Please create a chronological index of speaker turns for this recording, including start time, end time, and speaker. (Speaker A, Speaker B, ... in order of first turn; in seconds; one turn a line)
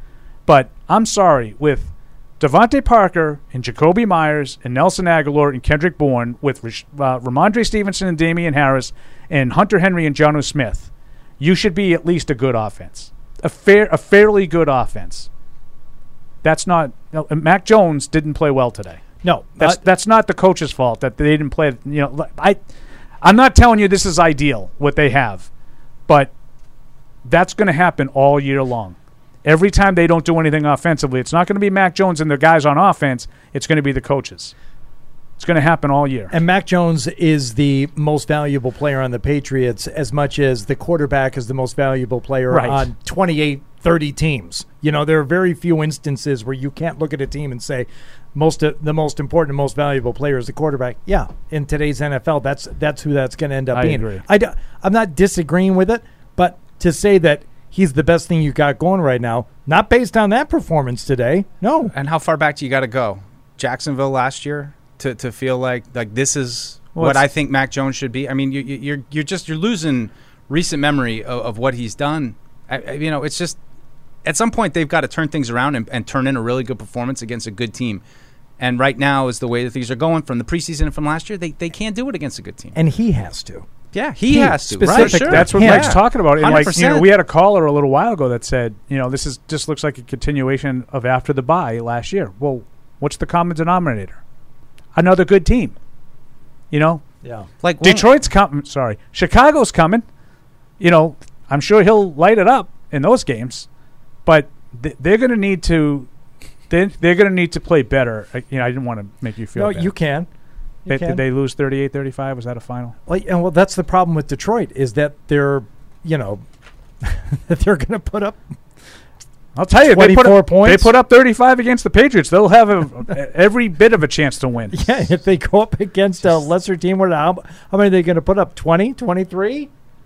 Speaker A: 0.5-15.3
Speaker A: 16.4-19.0
Speaker B: 19.2-19.8
Speaker A: 19.6-22.6
Speaker A: 23.2-25.5
Speaker A: 26.1-26.3
Speaker A: 27.2-34.5
Speaker A: 35.4-36.3
Speaker B: 36.3-61.9
Speaker A: 42.5-42.8
Speaker A: 53.7-54.2
Speaker C: 61.9-73.6
Speaker A: 67.0-67.3
Speaker C: 74.2-78.0
Speaker C: 78.6-82.8
Speaker B: 82.7-83.7
Speaker C: 83.9-87.1
Speaker B: 84.3-86.0
Speaker A: 84.8-94.2
Speaker A: 95.0-95.8
Speaker A: 96.7-97.0
Speaker B: 97.2-97.5
Speaker C: 97.6-98.1
Speaker A: 97.8-100.0
Speaker A: 100.8-103.7
Speaker A: 104.3-106.1
Speaker A: 106.7-109.9
Speaker B: 109.5-110.3
Speaker B: 110.9-111.2
Speaker A: 110.9-113.0
Speaker B: 113.1-116.5
Speaker B: 117.0-118.5
Speaker A: 119.6-124.8
Speaker B: 119.8-120.9
Speaker B: 124.7-129.7